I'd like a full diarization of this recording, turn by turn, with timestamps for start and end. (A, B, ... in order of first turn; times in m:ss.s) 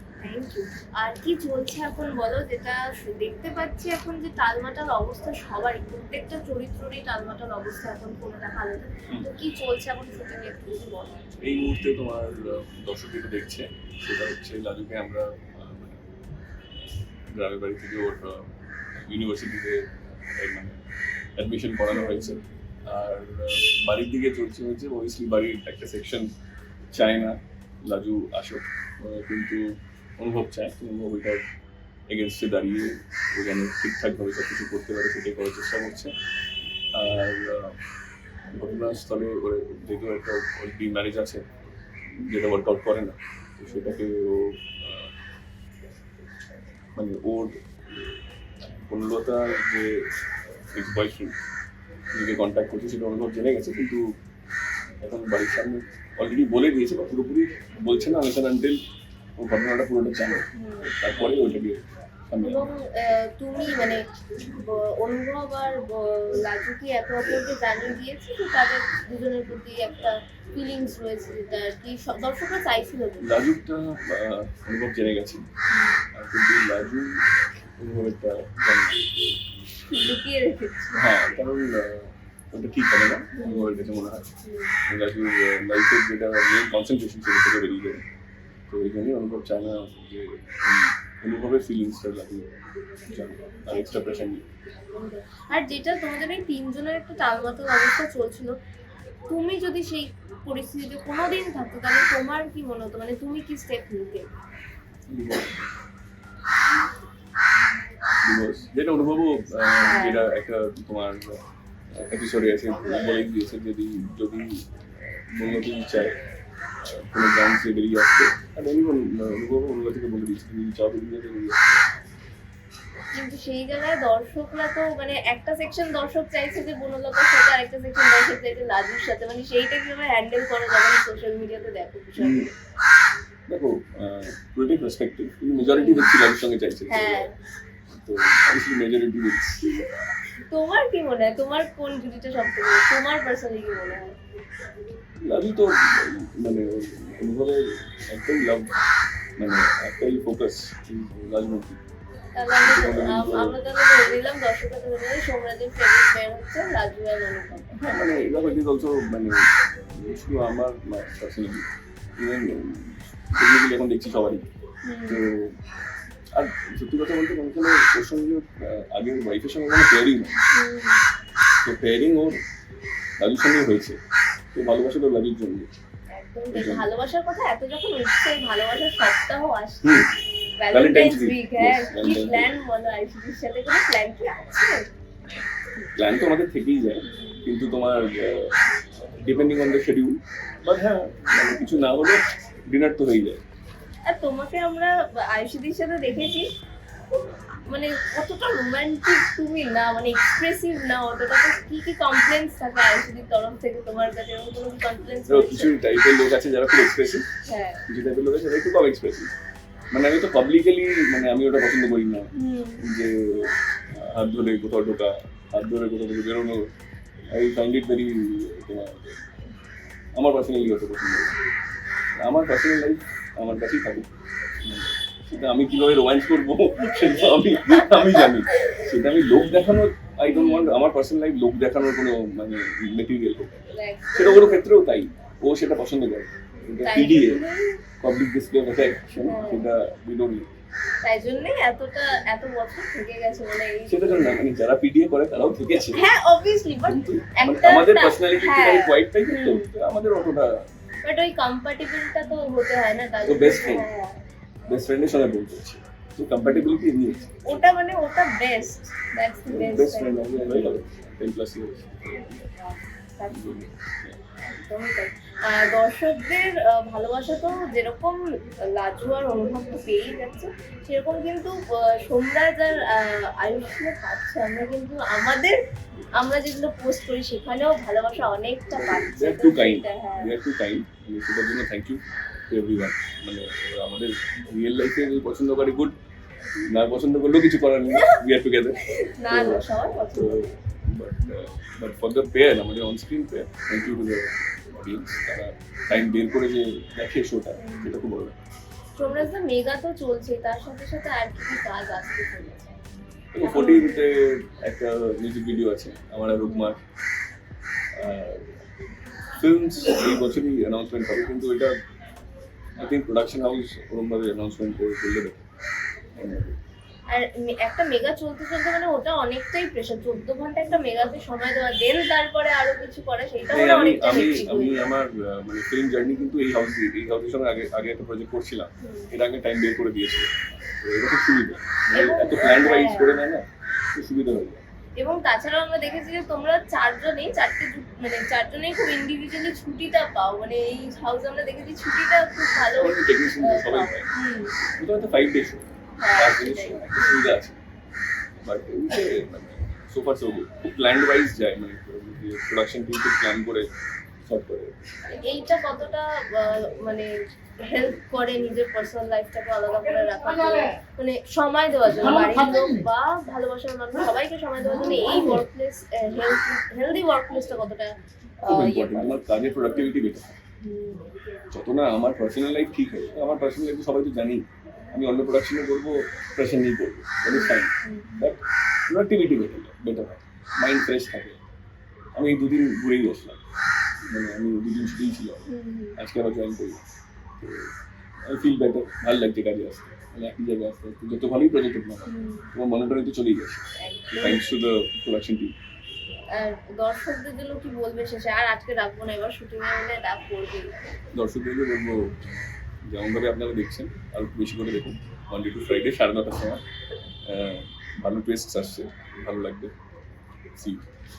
0:00.2-0:11.2 A
0:11.4-0:16.1 B
0:17.3-0:20.8 B
0:21.4-0:26.3 B
0:21.9-0:22.5 A
0:26.9-0:31.4 B
0:32.1-0:36.1 B
0:36.9-0:37.8 B
0:38.5-0:41.4 B
0:42.2-0:45.1 B
0:43.7-0:44.0 A
0:47.0-0:47.6 B
0:48.8-0:50.1 B
0:50.7-0:51.4 B
0:52.1-0:54.0 B
0:55.0-0:58.8 B
0:59.4-1:02.7 B
1:00.5-1:00.9 A
1:02.4-1:13.4 A
1:13.2-1:15.4 B
1:15.7-1:16.0 A
1:16.1-1:17.2 B
1:17.8-1:19.0 B
1:19.9-1:21.0 A
1:20.9-1:24.3 B
1:23.4-1:23.9 A
1:24.4-1:24.8 A
1:24.9-1:28.0 B
1:28.7-1:32.5 B
1:33.1-1:34.4 B
1:33.7-1:34.3 A
1:34.9-1:38.6 A
1:39.3-1:44.3 A
1:45.1-1:45.6 B
1:48.2-1:51.4 B
1:49.7-1:50.2 A
1:51.9-1:56.2 B
1:56.8-2:01.8 B
2:03.1-2:12.5 A
2:12.2-2:12.5 B
2:13.5-2:17.3 B
2:15.6-2:16.1 A
2:16.9-2:17.3 A
2:17.9-2:19.6 B
2:20.5-2:24.2 A
2:25.2-2:28.7 B
2:29.4-2:31.8 B
2:32.4-2:37.9 A
2:32.6-2:33.6 B
2:37.8-2:41.7 B
2:42.2-2:44.5 B
2:44.8-2:45.2 A
2:45.1-2:45.5 B
2:46.3-2:50.4 B
2:50.5-2:51.0 A
2:51.6-2:52.4 B
2:53.2-2:54.0 B
2:54.5-2:55.7 B
2:56.1-3:04.8 A
2:56.5-2:56.9 B
2:59.8-3:00.1 B
3:00.7-3:02.5 B
3:06.0-3:08.5 B
3:07.0-3:07.4 A
3:09.2-3:13.4 B
3:14.1-3:16.5 A
3:17.7-3:25.8 A
3:25.3-3:27.3 B
3:27.5-3:27.8 A
3:27.9-3:29.3 B
3:29.9-3:36.7 B
3:32.4-3:32.8 A
3:37.3-3:39.2 B
3:40.2-3:41.4 B
3:42.2-3:57.4 B
3:47.7-3:48.3 A
3:50.3-3:50.8 A
3:53.7-3:54.6 A
3:56.8-3:57.8 A
3:58.0-4:00.5 B
3:59.2-3:59.7 A
4:01.0-4:04.4 A
4:03.9-4:06.0 B
4:05.9-4:09.7 A
4:06.8-4:10.6 B
4:11.0-4:14.2 A
4:13.2-4:13.9 B
4:14.7-4:17.5 B
4:16.4-4:16.7 A
4:17.4-4:20.8 A
4:19.5-4:22.5 B
4:23.2-4:23.6 A
4:23.3-4:24.2 B
4:24.4-4:35.6 A
4:36.2-4:40.3 A
4:38.7-4:46.0 B
4:46.7-4:58.4 B
4:47.9-4:48.2 A
4:48.8-4:50.5 A
4:57.6-4:57.9 A
4:59.0-5:02.8 A
5:03.3-5:06.8 B
5:03.4-5:04.0 A
5:06.4-5:06.7 A
5:08.0-5:08.5 B
5:09.4-5:11.8 B
5:12.8-5:15.4 B
5:16.2-5:16.6 B
5:17.1-5:24.9 A
5:23.5-5:34.6 B
5:28.8-5:29.1 A
5:31.9-5:33.2 A
5:35.0-5:44.6 A
5:42.7-5:44.1 B
5:44.8-5:47.6 B
5:46.0-5:47.3 A
5:48.4-5:53.7 B
5:54.2-5:54.8 B
5:55.1-5:57.1 A
5:57.6-6:09.8 A
6:08.4-6:10.4 B
6:10.6-6:11.1 A
6:11.5-6:21.4 B
6:17.3-6:18.1 A
6:22.2-6:23.4 B
6:24.1-6:26.8 B
6:25.5-6:26.0 A
6:27.4-6:27.7 B
6:28.3-6:35.5 B
6:32.1-6:32.5 A
6:33.8-6:34.4 A
6:36.3-6:40.7 A
6:41.1-6:42.2 B
6:42.9-6:46.6 B
6:47.3-6:49.7 B
6:50.6-6:50.9 B